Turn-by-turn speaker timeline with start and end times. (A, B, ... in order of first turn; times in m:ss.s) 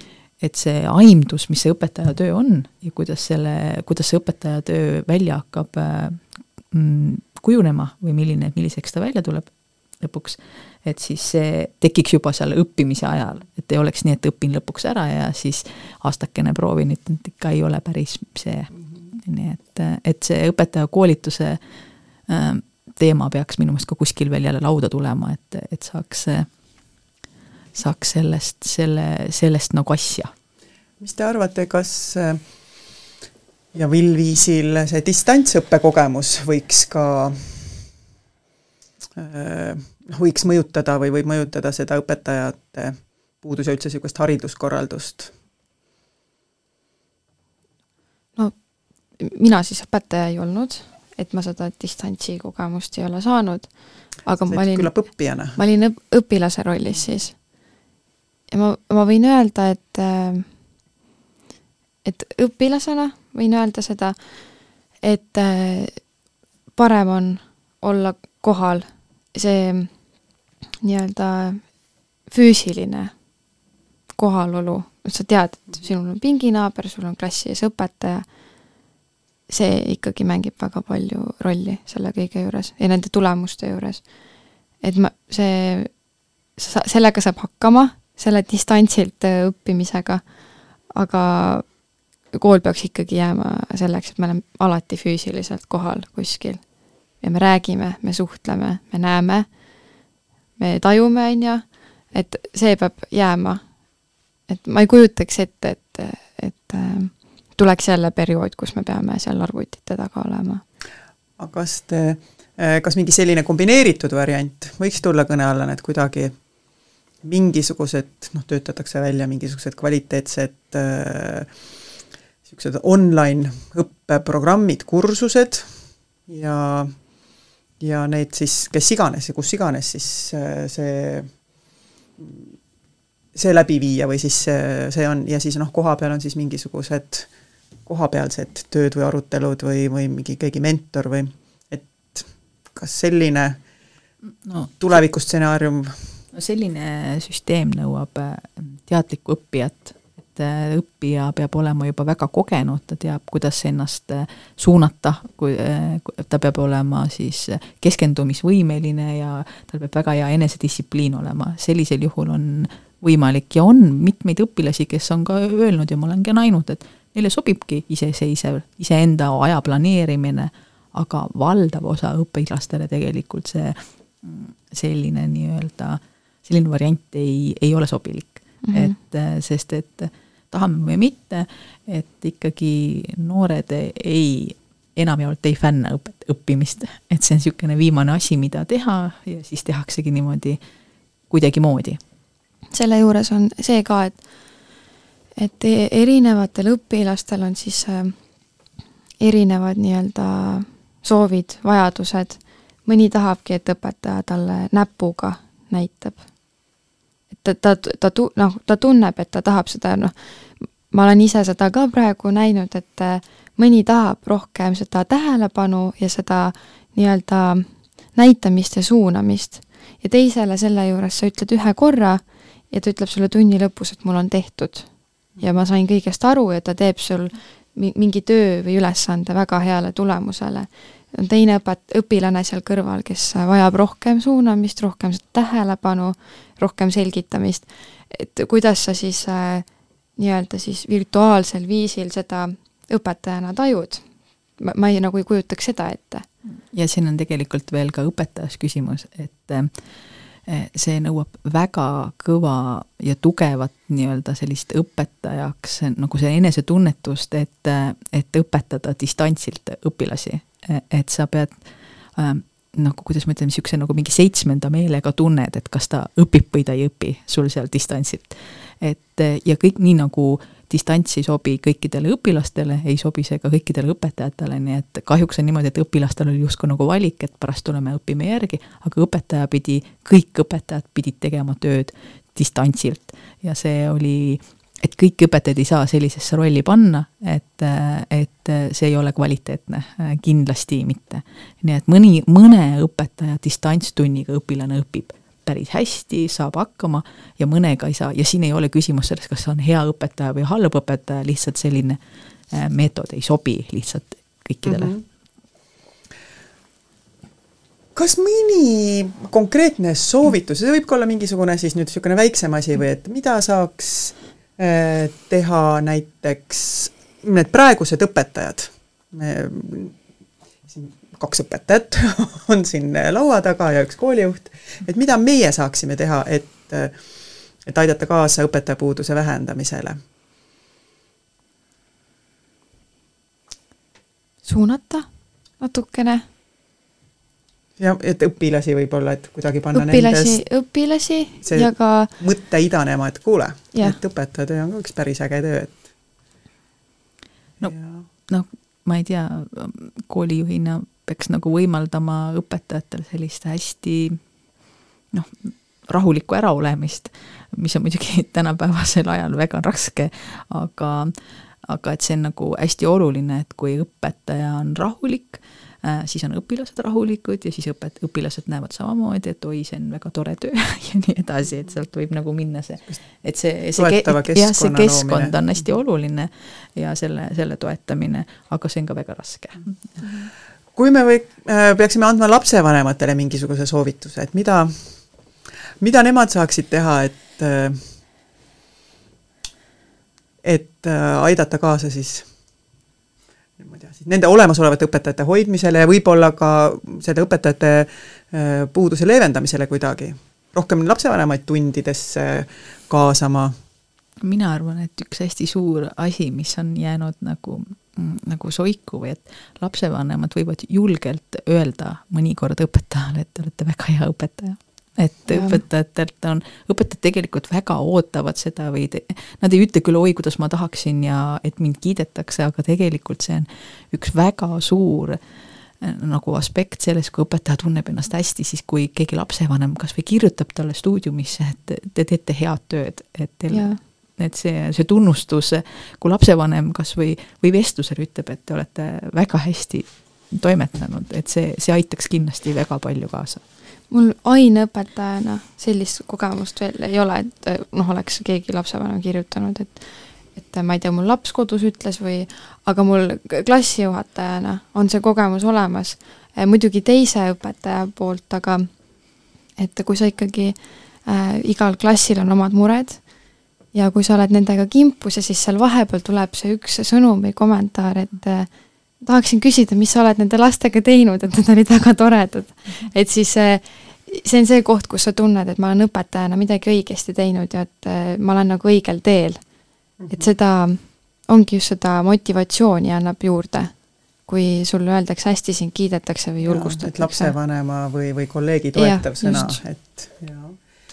0:00.4-0:21.6 A
0:22.3-0:26.5 A
0:27.7-0:30.3 A
0:31.0-0:32.4 B
0:33.7-0:37.8 B
0:39.2-0:45.3 B
0:49.2-0:57.3 C
0:54.5-0:55.6 B
0:58.5-1:00.5 C
1:02.0-1:04.2 C
1:05.0-1:06.0 C
1:06.8-1:09.9 C
1:10.8-1:11.6 C
1:12.3-1:13.1 C
1:14.2-1:18.2 C
1:19.5-1:24.0 C
1:24.8-1:25.9 C
1:26.6-1:30.2 C
1:30.9-1:31.6 C
1:32.3-1:36.6 C
1:37.2-1:39.5 C
1:40.6-1:43.6 C
1:44.5-1:50.6 C
1:51.4-1:56.4 B
1:57.2-2:01.5 B
2:02.4-2:05.7 B
2:06.3-2:07.0 B
2:07.8-2:11.3 B
2:12.2-2:12.5 B
2:13.3-2:17.3 B
2:17.8-2:23.6 B
2:24.4-2:24.9 A
2:24.8-2:26.2 B
2:26.3-3:10.6 A
2:58.6-2:58.9 C
3:11.3-3:12.0 A
3:12.7-3:14.2 C
3:15.4-3:18.1 C
3:19.2-3:26.2 C
3:27.4-3:59.6 C
4:00.2-4:04.0 C
4:04.6-4:06.2 C
4:06.4-4:09.7 A
4:10.4-4:21.6 A
4:22.1-5:02.0 A
5:02.5-5:04.9 A
5:04.6-5:05.0 B
5:07.9-5:20.0 B
5:20.7-5:27.0 B
5:27.6-5:30.0 B
5:34.4-5:35.1 C
5:35.6-5:36.2 C
5:37.8-5:40.4 B
5:39.7-5:42.1 C
5:41.4-5:45.8 B
5:47.6-5:48.0 B
5:48.2-5:54.2 A
5:55.1-6:20.2 A
6:13.7-6:15.3 B
6:20.8-6:24.9 B
6:25.8-6:27.8 B
6:30.4-6:32.3 B
6:33.6-6:43.6 B
6:44.2-7:05.2 A
6:55.3-6:55.6 C
7:05.8-7:23.4 A
7:13.5-7:13.8 C
7:23.9-7:38.7 C
7:39.6-7:43.0 C
7:43.7-7:48.5 C
7:49.0-7:59.4 C
8:00.0-8:00.3 B
8:00.1-8:03.7 C
8:04.2-8:07.3 C
8:06.4-8:10.6 B
8:08.8-8:09.6 C